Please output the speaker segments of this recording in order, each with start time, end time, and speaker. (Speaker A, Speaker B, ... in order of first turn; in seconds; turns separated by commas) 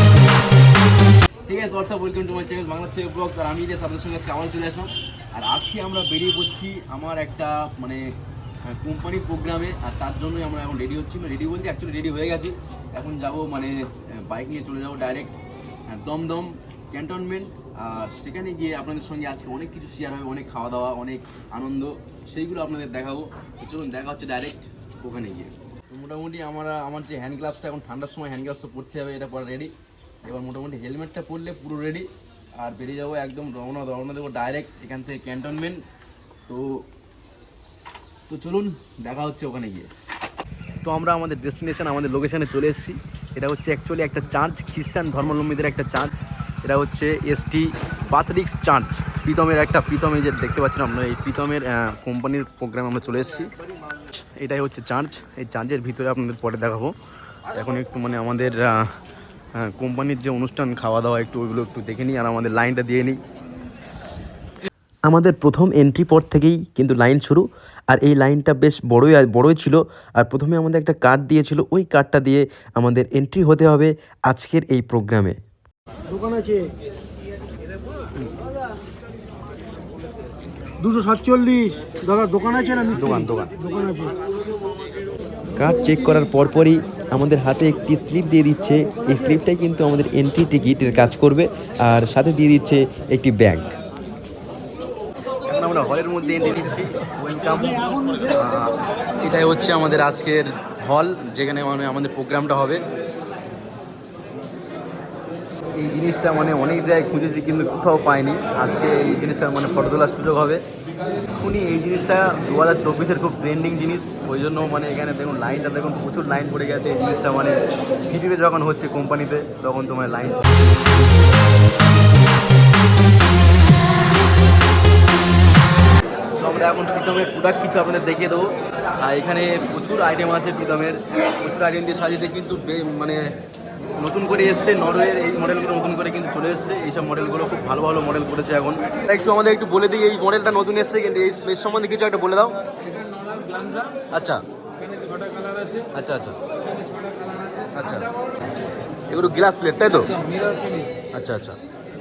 Speaker A: 1.5-8.1, Speaker A: 8.7-15.3, Speaker A: 15.9-35.8, Speaker A: 36.5-36.9, Speaker A: 38.3-39.9, Speaker A: 40.8-53.5, Speaker A: 54.4-56.9, Speaker A: 57.5-58.9, Speaker A: 59.5-63.2, Speaker B: 65.1-75.4, Speaker C: 76.1-76.7, Speaker C: 80.8-82.9, Speaker A: 82.9-83.5, Speaker C: 83.6-84.1, Speaker B: 85.6-93.7, Speaker A: 95.5-102.8, Speaker A: 105.8-110.6, Speaker A: 111.3-120.5, Speaker A: 126.4-133.2, Speaker A: 134.0-142.6, Speaker A: 144.1-144.4, Speaker A: 145.9-146.4, Speaker A: 147.7-148.1, Speaker A: 149.1-150.2, Speaker A: 151.1-151.6